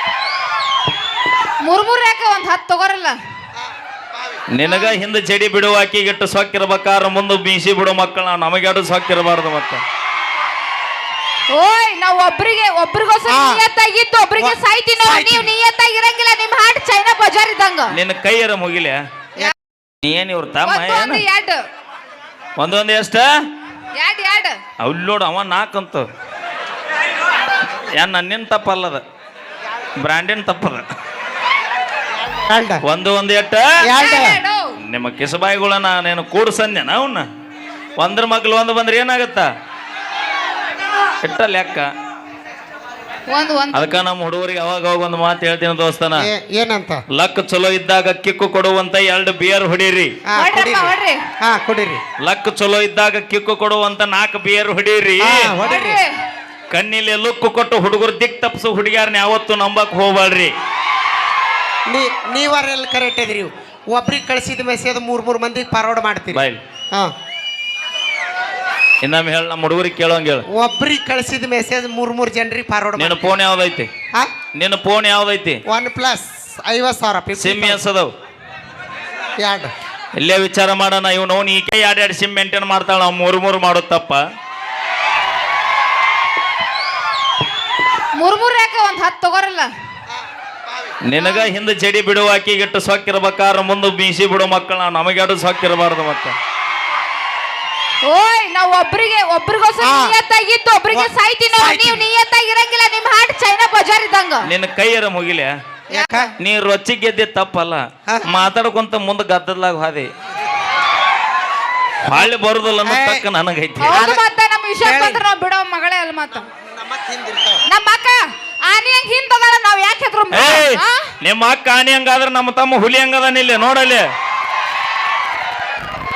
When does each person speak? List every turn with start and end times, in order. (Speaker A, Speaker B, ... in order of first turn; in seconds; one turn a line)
Speaker A: 1.6-3.2
Speaker B: 3.6-4.5
Speaker C: 4.5-9.8
Speaker A: 4.7-5.0
Speaker A: 11.5-17.9
Speaker B: 13.3-13.6
Speaker B: 14.4-15.5
Speaker C: 17.9-19.0
Speaker C: 20.0-21.2
Speaker A: 20.6-21.6
Speaker C: 22.6-23.3
Speaker A: 24.0-24.6
Speaker C: 24.8-26.1
Speaker C: 27.7-29.0
Speaker C: 30.0-30.9
Speaker B: 32.2-32.8
Speaker C: 32.8-33.8
Speaker B: 33.8-34.4
Speaker A: 34.0-34.7
Speaker C: 34.8-37.3
Speaker C: 38.0-39.5
Speaker C: 41.2-41.9
Speaker A: 43.3-44.0
Speaker C: 43.7-46.3
Speaker B: 46.2-47.0
Speaker C: 47.1-50.1
Speaker B: 50.3-52.0
Speaker A: 50.4-51.2
Speaker C: 52.2-55.5
Speaker B: 55.2-56.0
Speaker A: 55.6-56.1
Speaker C: 56.7-60.5
Speaker B: 61.9-67.1
Speaker C: 66.3-66.6
Speaker C: 69.0-70.5
Speaker B: 70.5-73.4
Speaker C: 73.0-73.9
Speaker C: 74.5-75.6
Speaker B: 75.7-77.8
Speaker C: 77.4-78.1
Speaker B: 79.4-79.7
Speaker C: 80.2-84.2
Speaker A: 88.2-89.7
Speaker B: 90.1-91.0
Speaker C: 91.0-96.4
Speaker A: 91.2-91.5
Speaker A: 98.0-104.5
Speaker B: 99.8-100.2
Speaker B: 100.9-102.0
Speaker C: 104.5-105.5
Speaker B: 105.9-106.3
Speaker A: 105.9-106.3
Speaker C: 106.4-110.1
Speaker B: 108.1-108.3
Speaker C: 112.0-114.0
Speaker B: 112.8-113.3
Speaker A: 113.8-116.5
Speaker B: 113.9-114.2
Speaker B: 114.8-115.2
Speaker B: 116.5-117.7
Speaker A: 117.7-121.1
Speaker C: 120.3-124.1